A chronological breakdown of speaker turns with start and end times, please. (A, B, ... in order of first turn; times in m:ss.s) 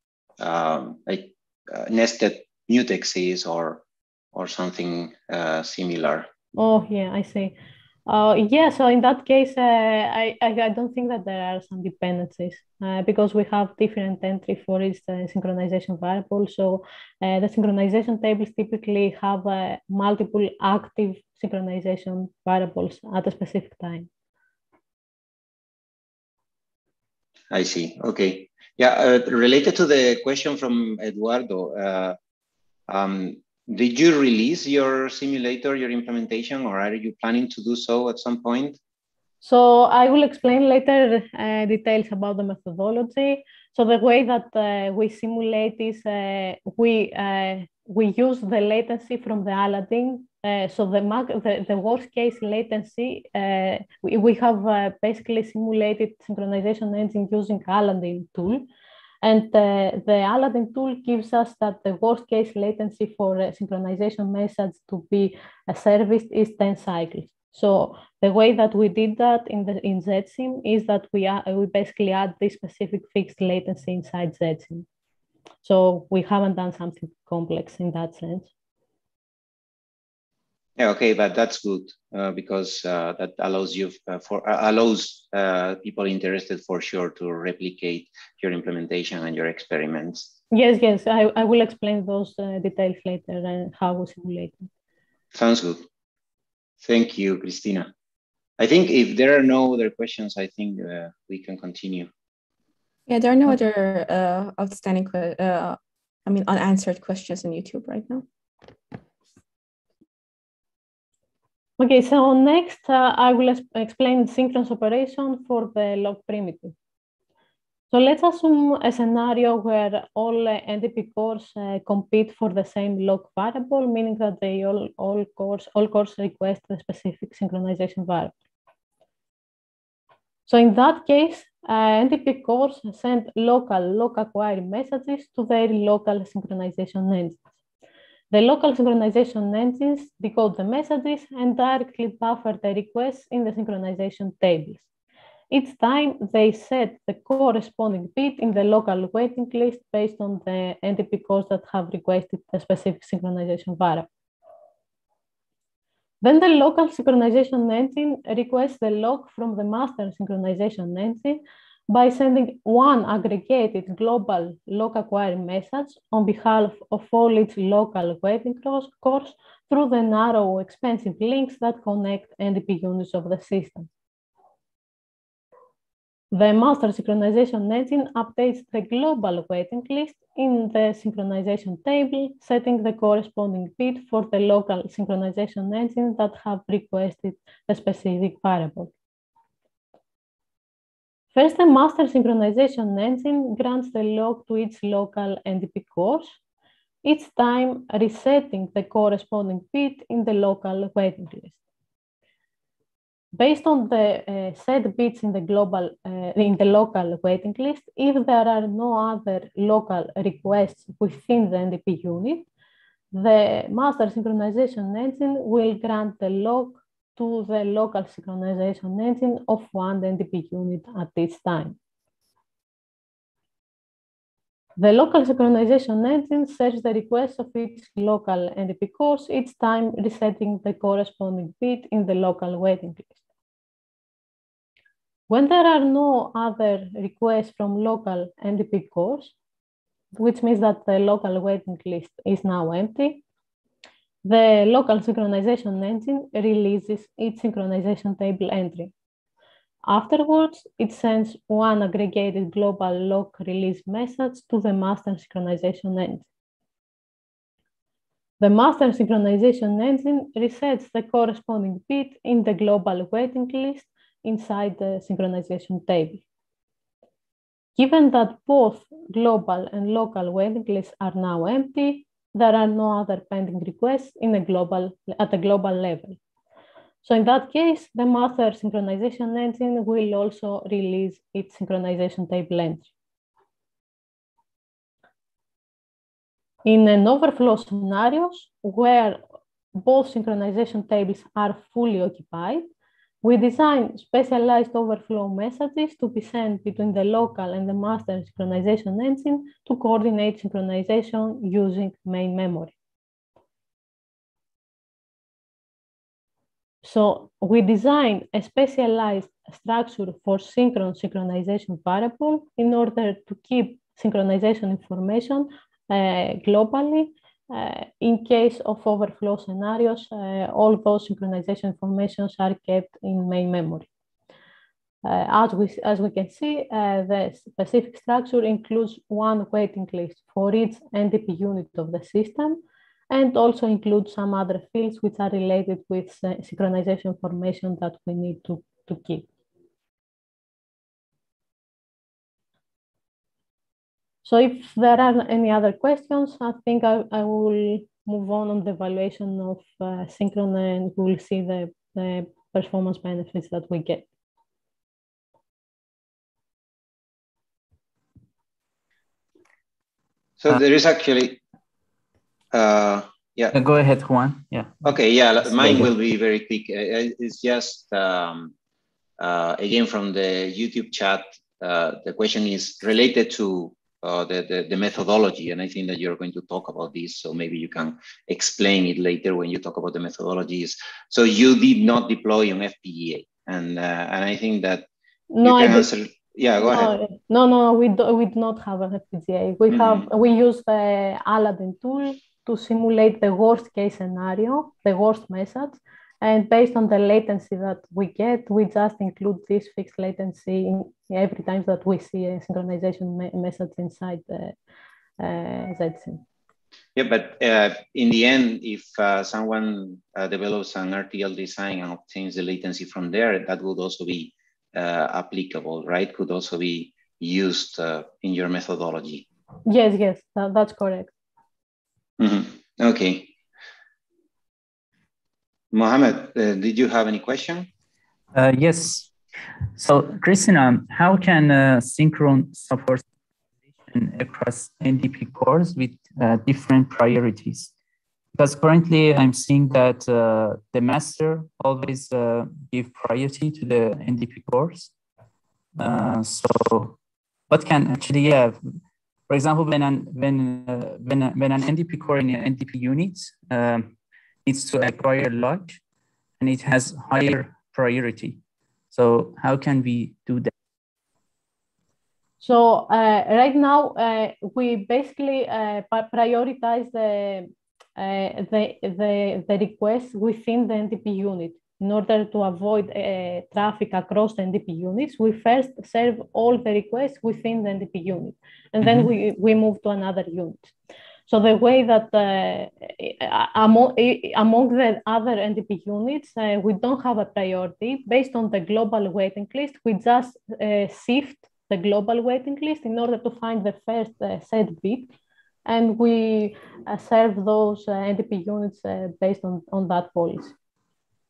0:00.4-0:06.3 A
0:06.5-0:24.1 B
0:27.5-0:32.2 A
0:32.9-0:38.8 A
0:39.4-0:58.7 B
0:59.2-1:14.8 B
1:15.6-1:18.5 B
1:20.8-1:30.3 A
1:30.5-1:34.7 B
1:35.3-1:35.8 A
1:36.8-1:37.9 A
1:38.6-1:42.1 A
1:43.1-1:48.2 C
1:51.8-1:56.7 B
1:57.9-2:08.3 B
2:10.5-2:17.4 B
2:18.3-2:24.8 B
2:25.5-2:34.1 B
2:36.2-2:53.9 B
2:56.3-3:08.9 B
3:11.3-3:16.4 B
3:17.0-3:21.6 B
3:23.3-3:32.5 B
3:33.1-3:41.8 B
3:44.8-3:53.1 B
3:55.3-3:59.3 B
4:00.1-4:03.2 B
4:04.2-4:08.9 B
4:09.8-4:16.3 B
4:18.4-4:26.2 B
4:27.8-4:36.2 B
4:37.0-4:42.9 B
4:46.6-4:49.2 B
4:49.7-4:52.7 B
4:53.2-5:02.8 B
5:06.8-5:23.9 B
5:25.0-5:32.6 B
5:33.1-5:39.3 B
5:44.2-5:54.1 B
6:00.4-6:01.4 A
6:02.5-6:03.6 A
6:03.5-6:04.8 D
6:04.8-6:08.5 A
6:05.6-6:05.9 D
6:09.2-6:24.9 A
6:25.3-6:25.9 B
6:25.4-6:26.9 A
6:26.6-6:44.6 B
6:29.7-6:30.0 A
6:45.2-6:46.2 B
6:46.9-6:59.2 A
6:59.6-7:01.1 B
7:02.2-7:03.3 A
7:05.7-7:07.7 A
7:08.3-7:09.1 D
7:09.7-7:13.0 D
7:13.9-7:17.7 D
7:18.3-7:24.9 D
7:25.8-7:27.0 D
7:27.5-7:28.6 D
7:29.3-7:33.9 D
7:34.4-7:35.8 D
7:36.4-7:38.4 D
7:38.9-7:40.5 D
7:42.4-8:00.7 B
7:58.8-7:59.1 D
8:01.3-8:15.1 B
8:15.6-8:20.5 B